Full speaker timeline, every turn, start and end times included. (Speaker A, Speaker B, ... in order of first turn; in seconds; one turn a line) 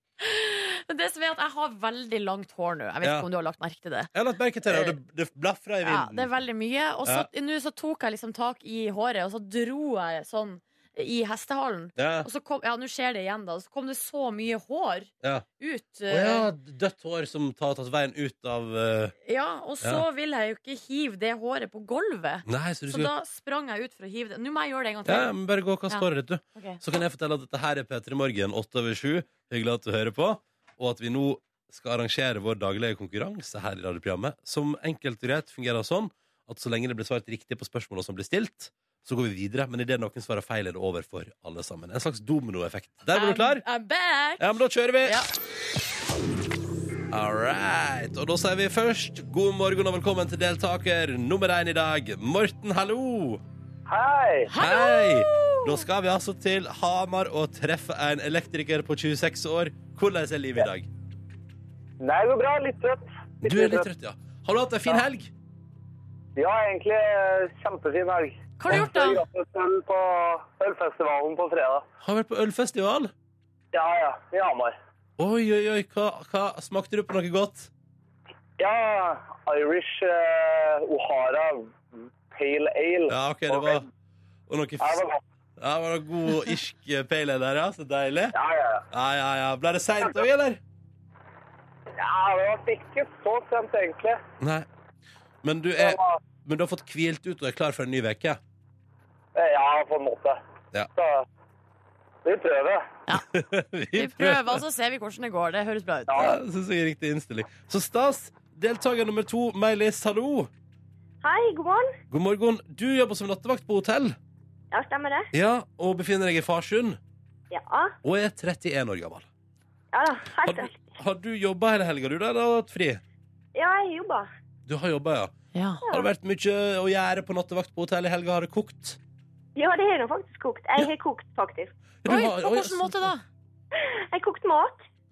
Speaker A: 0.2-4.1
Speaker B: 3.0-3.3
Speaker B: 4.1-6.3
Speaker A: 4.7-5.0
Speaker A: 5.8-16.5
Speaker B: 12.0-12.3
Speaker B: 16.1-19.1
Speaker A: 19.3-25.3
Speaker B: 22.5-23.1
Speaker B: 25.1-43.6
Speaker A: 25.9-26.8
Speaker A: 43.1-44.4
Speaker B: 44.4-45.2
Speaker B: 47.1-53.4
Speaker C: 53.9-54.5
Speaker A: 54.5-55.8
Speaker B: 54.6-60.9
Speaker C: 62.0-63.9
Speaker B: 63.4-65.3
Speaker C: 66.4-71.8
Speaker A: 68.6-69.2
Speaker B: 68.7-69.0
Speaker B: 72.0-73.1
Speaker C: 73.7-74.8
Speaker B: 75.2-77.7
Speaker C: 78.6-83.8
Speaker B: 83.1-83.9
Speaker B: 84.5-85.0
Speaker C: 84.8-85.2
Speaker B: 85.6-88.3
Speaker C: 88.3-88.8
Speaker B: 88.9-90.6
Speaker C: 92.0-94.2
Speaker B: 94.4-94.7
Speaker B: 95.4-98.4
Speaker C: 95.8-96.2
Speaker C: 99.4-100.4
Speaker C: 101.0-101.2
Speaker C: 102.2-102.9
Speaker B: 103.3-104.6
Speaker A: 103.9-106.2
Speaker B: 106.2-110.5
Speaker D: 111.2-112.0
Speaker B: 112.1-114.2
Speaker D: 114.7-115.3
Speaker B: 115.3-117.0
Speaker D: 117.5-118.0
Speaker B: 118.0-119.3
Speaker D: 119.9-120.9
Speaker B: 120.4-123.0
Speaker D: 123.5-124.3
Speaker B: 124.7-125.3
Speaker A: 125.5-125.8
Speaker B: 125.8-129.0
Speaker D: 129.6-131.8
Speaker B: 132.0-133.1
Speaker A: 132.1-133.2
Speaker D: 133.7-134.8